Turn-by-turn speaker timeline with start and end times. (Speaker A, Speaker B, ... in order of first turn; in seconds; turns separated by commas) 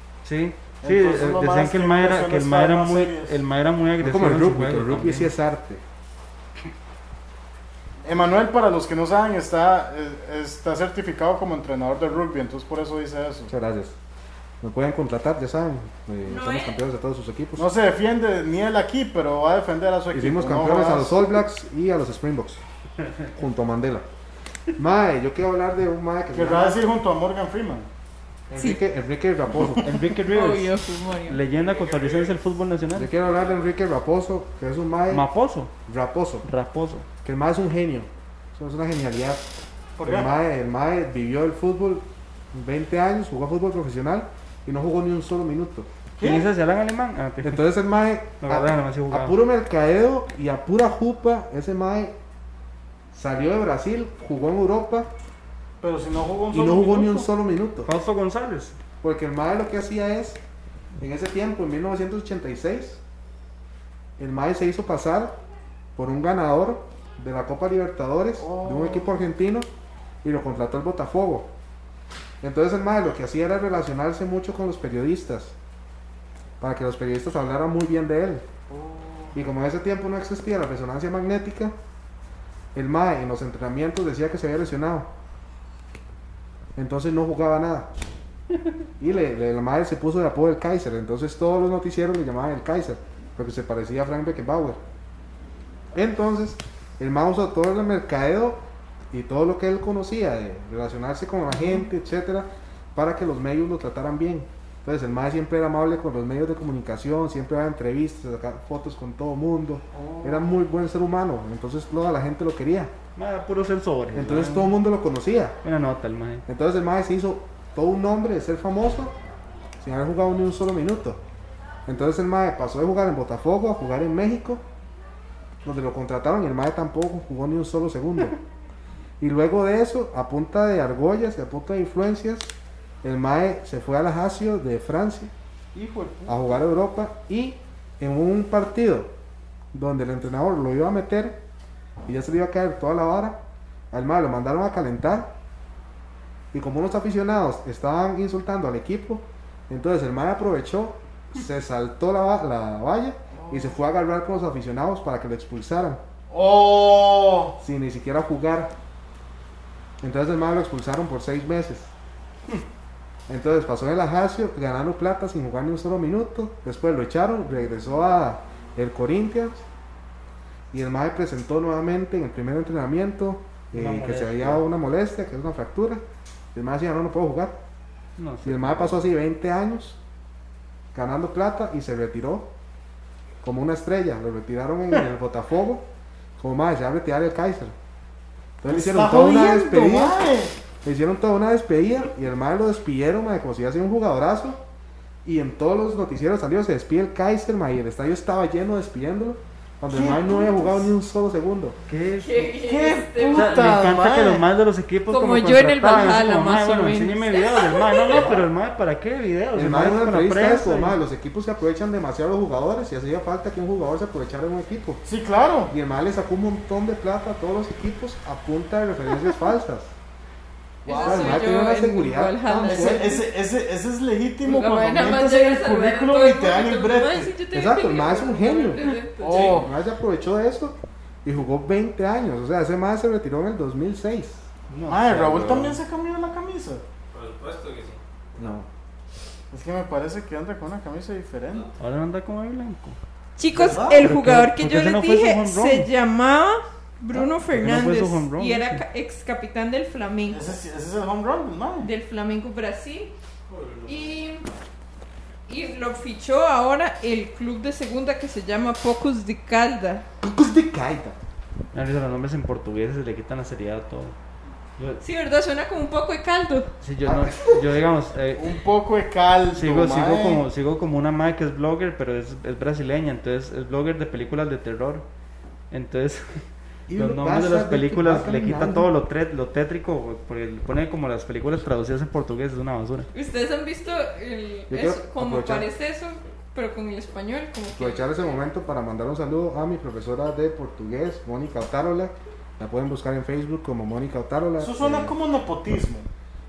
Speaker A: 0.2-5.3, Speaker B: 0.8-3.4, Speaker C: 4.0-5.8, Speaker B: 8.0-13.5, Speaker C: 13.5-13.9, Speaker C: 14.6-17.7, Speaker D: 16.2-16.8, Speaker B: 17.6-21.3, Speaker C: 20.1-22.6, Speaker C: 23.3-24.1, Speaker C: 24.8-26.8, Speaker B: 26.3-27.9, Speaker C: 28.5-29.9, Speaker A: 29.8-30.7, Speaker D: 30.3-31.4, Speaker A: 31.3-33.1, Speaker E: 31.5-32.4, Speaker C: 32.9-35.2, Speaker A: 35.1-35.7, Speaker C: 35.9-36.4, Speaker A: 36.4-37.0, Speaker C: 37.2-39.5, Speaker B: 40.0-40.3, Speaker C: 40.0-45.9, Speaker B: 46.2-46.5, Speaker A: 46.2-47.6, Speaker C: 47.4-52.1, Speaker A: 48.4-49.4, Speaker C: 53.1-55.1, Speaker B: 55.8-57.3, Speaker C: 56.5-57.9, Speaker A: 57.8-58.8, Speaker C: 59.0-60.4, Speaker C: 61.0-63.0, Speaker C: 64.2-65.3, Speaker C: 66.0-69.7, Speaker B: 68.4-69.2, Speaker C: 70.2-71.5, Speaker C: 72.4-75.5, Speaker C: 76.6-78.5, Speaker B: 78.7-79.4, Speaker C: 79.3-81.8, Speaker C: 82.7-85.1, Speaker C: 86.8-87.9, Speaker C: 89.0-94.8, Speaker C: 95.9-112.9, Speaker B: 109.9-110.6, Speaker A: 113.2-114.7, Speaker C: 114.1-115.6, Speaker A: 115.6-116.4, Speaker C: 116.5-119.1, Speaker C: 119.8-121.2, Speaker C: 121.8-124.6, Speaker C: 125.6-128.4, Speaker C: 129.2-135.3, Speaker B: 135.7-136.6, Speaker C: 136.2-139.1, Speaker C: 139.7-141.4, Speaker C: 142.1-145.3, Speaker C: 146.5-156.0, Speaker B: 153.3-153.8, Speaker B: 156.3-157.6, Speaker C: 157.6-158.7, Speaker C: 160.0-161.9, Speaker C: 163.3-169.6, Speaker C: 170.7-176.0, Speaker A: 173.7-174.6, Speaker C: 176.5-177.6, Speaker A: 178.2-179.0, Speaker C: 178.4-180.0, Speaker C: 180.9-182.5, Speaker C: 183.4-185.8, Speaker C: 186.4-187.7, Speaker C: 188.6-190.2, Speaker B: 188.7-190.5, Speaker C: 190.8-194.6, Speaker C: 195.2-201.8, Speaker B: 199.9-200.7, Speaker A: 201.9-202.5, Speaker D: 202.2-203.8, Speaker B: 202.6-204.4, Speaker A: 203.3-211.0, Speaker D: 205.1-208.4, Speaker C: 209.5-215.0, Speaker B: 215.0-215.7, Speaker C: 215.7-219.9, Speaker C: 220.8-223.2, Speaker D: 220.8-223.2, Speaker B: 221.0-221.4, Speaker B: 222.6-227.3, Speaker D: 224.4-229.6, Speaker C: 227.5-234.4, Speaker B: 229.2-229.7, Speaker A: 234.7-235.8, Speaker B: 234.8-236.8, Speaker C: 235.2-235.7, Speaker E: 237.1-238.0, Speaker C: 238.3-238.7, Speaker B: 239.5-241.7, Speaker A: 241.8-243.0, Speaker D: 243.4-250.5, Speaker B: 243.5-244.0, Speaker A: 243.9-245.9, Speaker A: 247.1-248.8, Speaker B: 250.3-251.9, Speaker D: 251.8-253.1, Speaker E: 253.5-254.2, Speaker D: 253.8-254.5, Speaker D: 255.5-260.0, Speaker C: 260.2-261.2, Speaker A: 261.7-264.1, Speaker D: 265.0-266.7, Speaker A: 266.8-268.4, Speaker C: 267.0-267.8, Speaker B: 268.4-270.4, Speaker A: 269.5-275.0, Speaker A: 275.7-276.4, Speaker C: 276.9-278.9, Speaker A: 276.9-283.1, Speaker D: 283.1-288.1, Speaker C: 284.7-285.7, Speaker C: 287.7-295.1, Speaker B: 294.6-296.1